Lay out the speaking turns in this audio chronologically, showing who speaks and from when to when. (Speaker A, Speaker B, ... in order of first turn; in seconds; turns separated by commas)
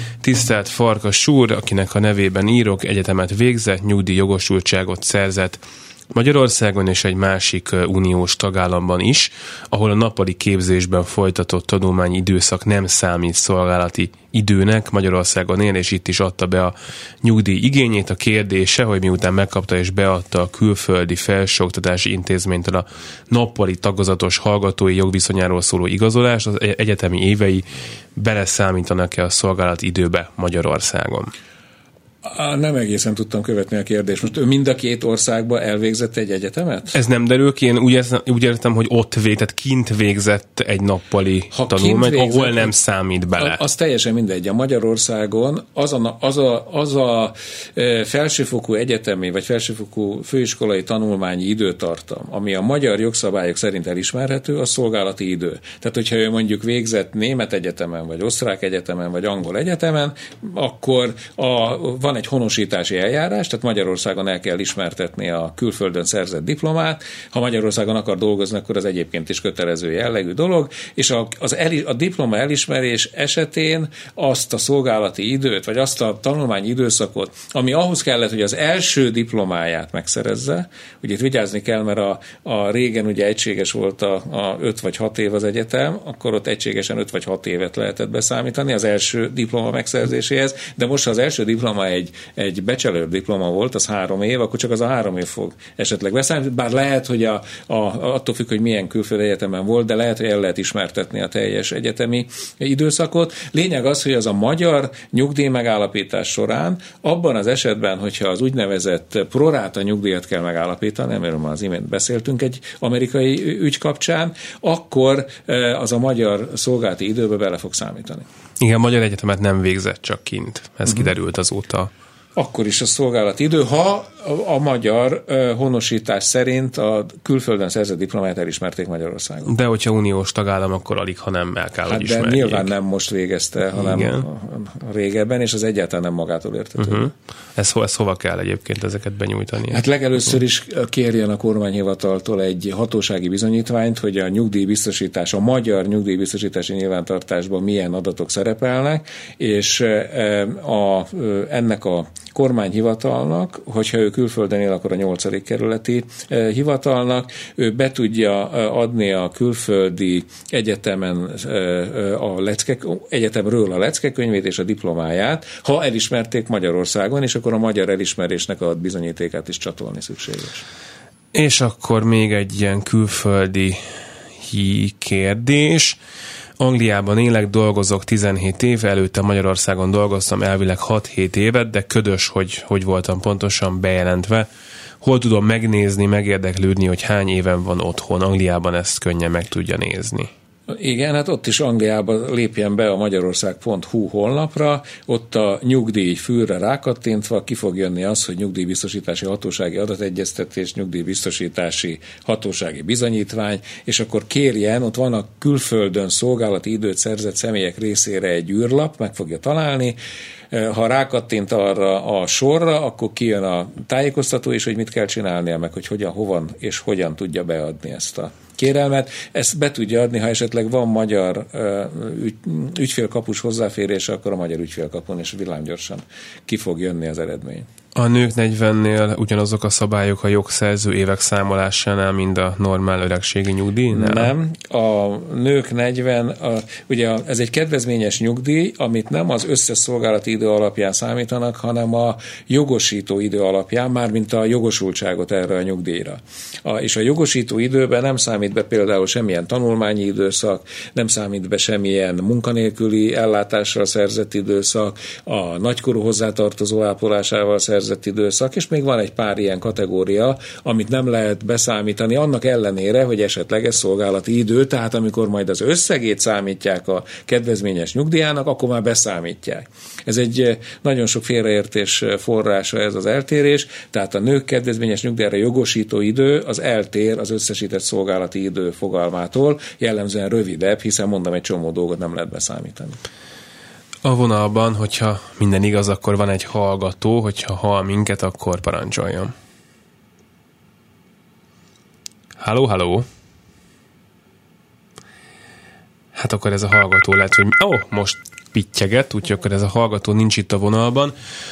Speaker A: 0.2-31.3, Speaker B: 32.2-37.0, Speaker A: 36.9-43.6, Speaker B: 41.5-42.7, Speaker B: 43.4-118.3, Speaker A: 118.6-121.9, Speaker B: 120.9-121.1, Speaker B: 122.4-129.5, Speaker A: 129.5-132.7, Speaker B: 131.9-137.1, Speaker A: 133.7-134.3, Speaker A: 136.8-140.3, Speaker B: 139.7-170.7, Speaker A: 171.3-173.8, Speaker A: 174.4-176.0, Speaker A: 176.6-184.5, Speaker A: 185.0-190.3, Speaker B: 190.7-210.0, Speaker B: 210.5-227.7, Speaker A: 227.9-234.3, Speaker B: 233.9-283.0, Speaker A: 284.0-289.3, Speaker A: 292.4-293.1, Speaker A: 296.1-301.1